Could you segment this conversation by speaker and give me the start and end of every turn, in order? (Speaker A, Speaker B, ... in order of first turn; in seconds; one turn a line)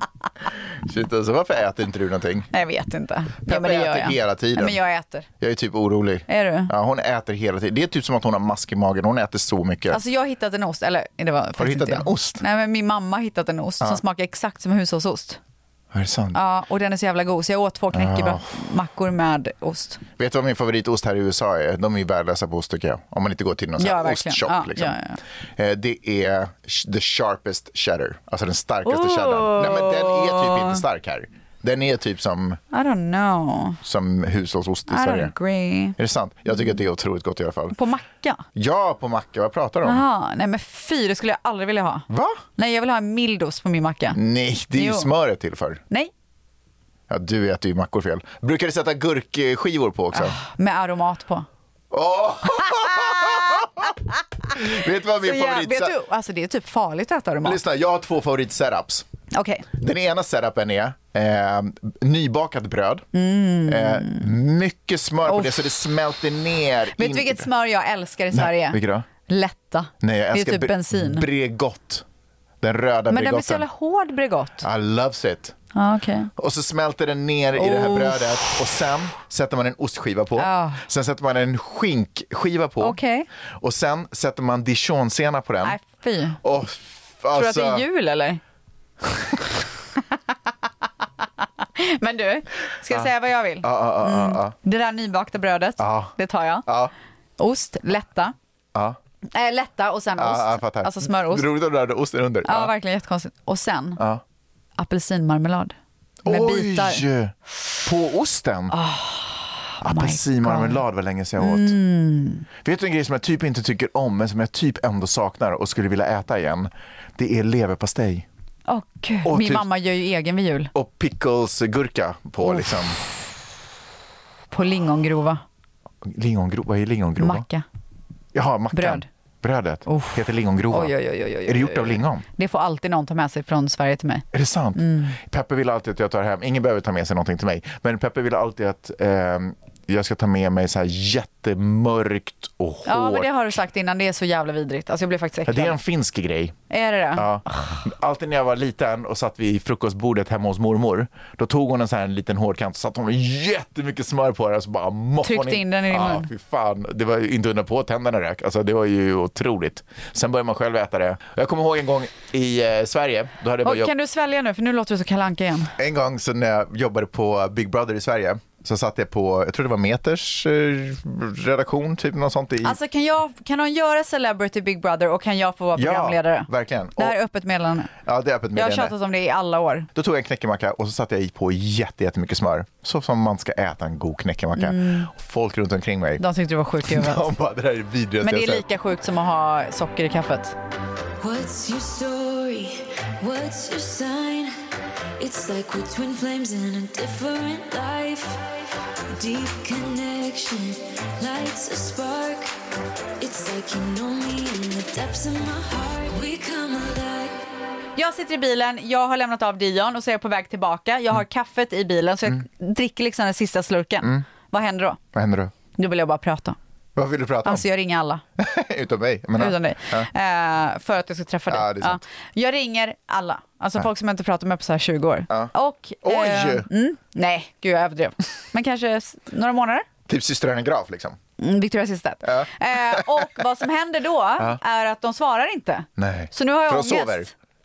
Speaker A: 0.8-2.5
Speaker B: 2.5-5.3
Speaker A: 3.5-4.8
Speaker A: 5.4-10.0
Speaker B: 6.3-6.7
Speaker B: 9.9-15.4
Speaker A: 11.6-12.4
Speaker A: 15.9-16.4
Speaker B: 16.3-20.0
Speaker A: 17.9-18.6
Speaker A: 20.2-24.9
Speaker B: 23.8-25.2
Speaker A: 25.6-32.6
Speaker B: 28.9-30.8
Speaker B: 32.7-33.8
Speaker A: 33.8-35.3
Speaker B: 34.9-36.0
Speaker A: 36.0-37.8
Speaker B: 37.7-38.5
Speaker A: 38.5-40.0
Speaker B: 39.8-42.1
Speaker A: 42.1-42.4
Speaker B: 42.6-44.2
Speaker A: 44.1-45.8
Speaker B: 44.7-45.1
Speaker A: 47.1-50.4
Speaker B: 50.1-51.5
Speaker A: 51.9-53.9
Speaker B: 52.7-53.9
Speaker A: 54.5-55.9
Speaker B: 55.2-57.6
Speaker A: 57.4-59.1
Speaker B: 59.3-59.7
Speaker A: 59.7-63.1
Speaker B: 63.1-64.3
Speaker A: 63.7-67.5
Speaker B: 65.2-65.8
Speaker B: 67.0-71.3
Speaker A: 68.3-69.1
Speaker A: 70.0-72.0
Speaker A: 72.6-73.7
Speaker B: 73.1-74.7
Speaker A: 74.6-75.5
Speaker B: 75.8-76.3
Speaker A: 76.4-83.0
Speaker B: 77.6-78.6
Speaker B: 80.4-80.8
Speaker B: 82.8-83.3
Speaker A: 83.6-85.8
Speaker B: 85.6-86.4
Speaker A: 86.4-87.8
Speaker B: 87.3-88.4
Speaker B: 91.8-96.7
Speaker A: 93.6-94.5
Speaker A: 95.8-96.1
Speaker A: 96.7-96.9
Speaker B: 97.4-98.3
Speaker B: 99.3-101.5
Speaker A: 100.2-102.7
Speaker B: 102.5-104.0
Speaker A: 104.0-104.2
Speaker B: 104.8-107.0
Speaker A: 106.2-108.8
Speaker B: 108.7-110.8
Speaker A: 109.8-111.8
Speaker B: 111.4-112.5
Speaker A: 112.6-118.3
Speaker B: 118.7-120.7
Speaker A: 119.2-119.7
Speaker A: 120.7-123.0
Speaker B: 124.5-125.4
Speaker A: 126.0-127.5
Speaker B: 127.2-127.7
Speaker A: 128.3-132.3
Speaker B: 128.7-129.1
Speaker B: 129.9-130.2
Speaker B: 130.7-134.2
Speaker A: 134.3-143.3
Speaker B: 134.8-135.2
Speaker B: 142.9-145.8
Speaker A: 145.5-146.6
Speaker B: 146.7-147.7
Speaker A: 147.2-163.9
Speaker B: 155.2-156.3
Speaker B: 163.6-165.7
Speaker A: 165.8-172.8
Speaker B: 172.6-177.9
Speaker A: 175.8-177.2
Speaker A: 178.0-178.9
Speaker B: 178.6-179.9
Speaker A: 179.9-186.2
Speaker B: 184.6-185.1
Speaker B: 186.2-187.3
Speaker A: 186.8-188.7
Speaker B: 188.2-190.6
Speaker C: 191.2-194.5
Speaker C: 195.2-198.4
Speaker C: 199.1-202.5
Speaker C: 203.2-207.4
Speaker B: 208.0-215.0
Speaker A: 215.1-215.5
Speaker B: 215.8-216.6
Speaker A: 217.0-217.6
Speaker B: 217.4-218.2
Speaker A: 218.4-220.1
Speaker B: 219.4-229.9
Speaker A: 221.5-222.0
Speaker A: 226.0-226.7
Speaker A: 230.1-231.2
Speaker B: 231.4-237.3
Speaker A: 232.2-233.3
Speaker A: 236.0-237.3